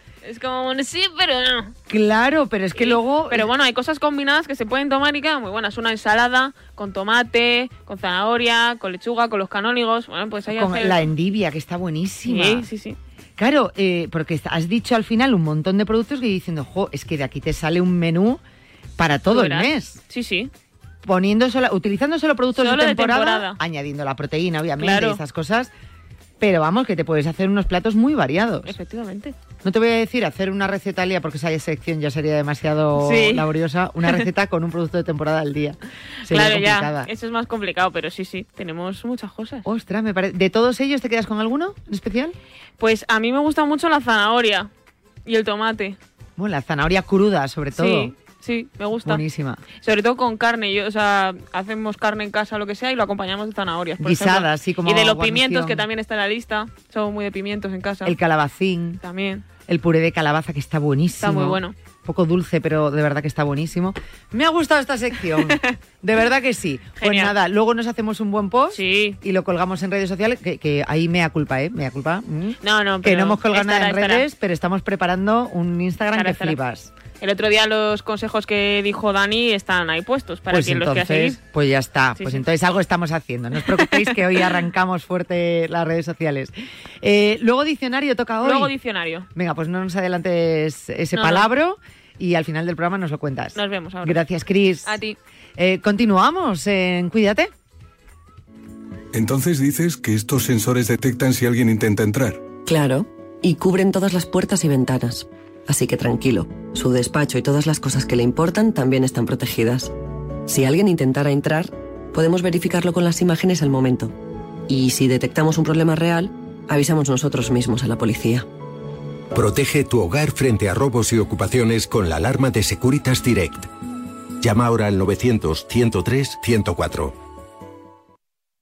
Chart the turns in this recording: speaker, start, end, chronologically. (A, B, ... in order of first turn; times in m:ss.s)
0:00.2-0:01.7 A
0:01.9-0:03.5 B
0:02.7-0:11.0 A
0:10.5-0:12.7 B
0:12.3-0:13.0 A
0:13.4-0:18.4 B
0:19.0-0:20.0 B
0:19.3-0:20.5 A
0:21.0-0:25.7 B
0:22.6-0:23.6 A
0:24.8-0:25.2 A
0:26.4-0:28.8 B
0:28.6-0:29.3 A
0:29.6-0:37.1 B
0:33.0-0:33.5 A
0:36.3-0:39.6 A
0:39.6-0:42.4 B
0:42.8-0:44.7 A
0:45.2-0:46.0 A
0:46.4-0:48.1 B
0:47.8-0:49.2 A
0:49.0-0:49.6 B
0:49.8-0:58.2 A
0:54.0-0:55.8 B
0:58.0-0:59.0 B
0:59.0-0:59.4 A
0:59.7-1:16.9 B
1:01.2-1:01.7 A
1:05.5-1:05.7 A
1:07.0-1:07.3 A
1:08.7-1:09.2 A
1:12.6-1:14.2 A
1:16.1-1:16.6 A
1:17.2-1:21.4 A
1:20.5-1:28.7 B
1:28.4-1:29.3 A
1:29.3-1:34.9 B
1:31.1-1:31.5 A
1:33.5-1:34.2 A
1:34.8-1:35.2 A
1:35.6-1:37.5 B
1:39.1-1:42.4 C
1:42.6-1:49.9 D
1:50.4-1:54.2 D
1:54.7-1:58.5 D
1:59.3-2:03.7 E
2:04.4-2:07.2 E